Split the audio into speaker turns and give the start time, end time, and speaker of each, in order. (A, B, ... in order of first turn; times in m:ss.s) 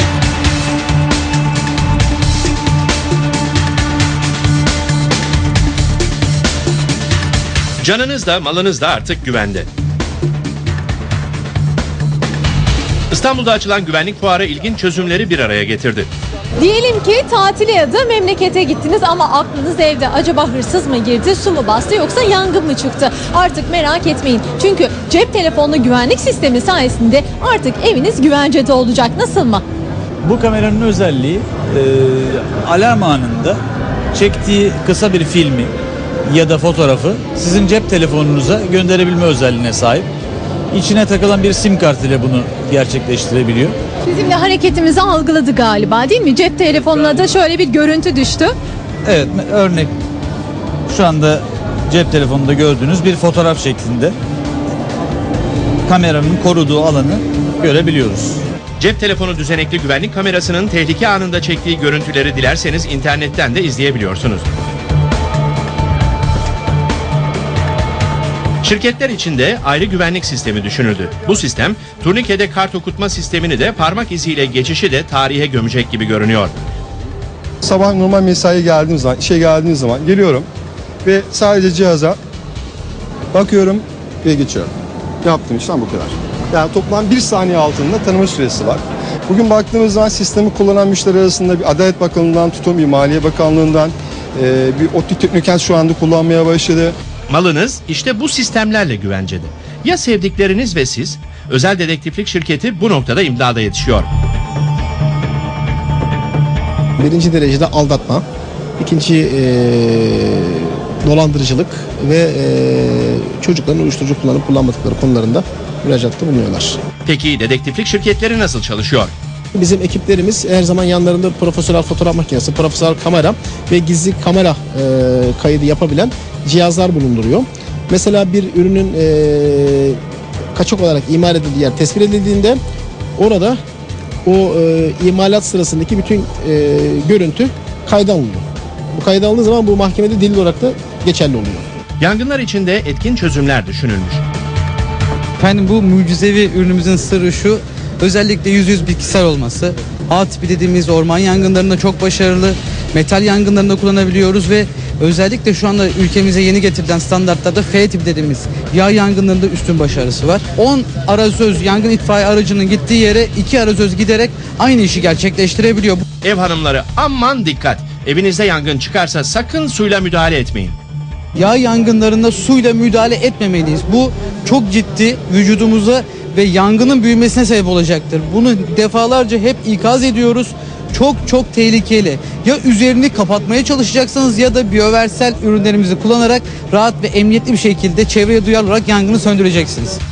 0:07.8-0:09.7 A
0:13.1-0:16.1 A
0:16.6-0:29.6 B
0:30.2-0:33.6 C
0:34.1-0:35.7 C
0:36.2-0:40.1 C
0:40.7-0:43.8 C
0:44.1-0:48.6 B
0:49.0-0:49.9 C
0:50.9-0:54.2 C
0:55.8-0:58.4 C
0:58.8-1:04.5 A
1:08.6-1:16.6 A
1:17.6-1:20.4 D
1:21.0-1:22.2 D
1:23.3-1:24.7 D
1:25.2-1:36.9 D
1:37.3-1:44.1 A
1:47.0-1:48.2 E
1:48.8-1:56.8 E
1:57.0-1:59.1 A
1:59.5-2:10.0 E
2:10.5-2:12.6 E
2:13.2-2:13.6 E
2:14.2-2:21.6 E
2:22.0-2:24.2 A
2:25.4-2:46.0 F
2:46.2-2:50.8 A
2:51.3-3:10.0 F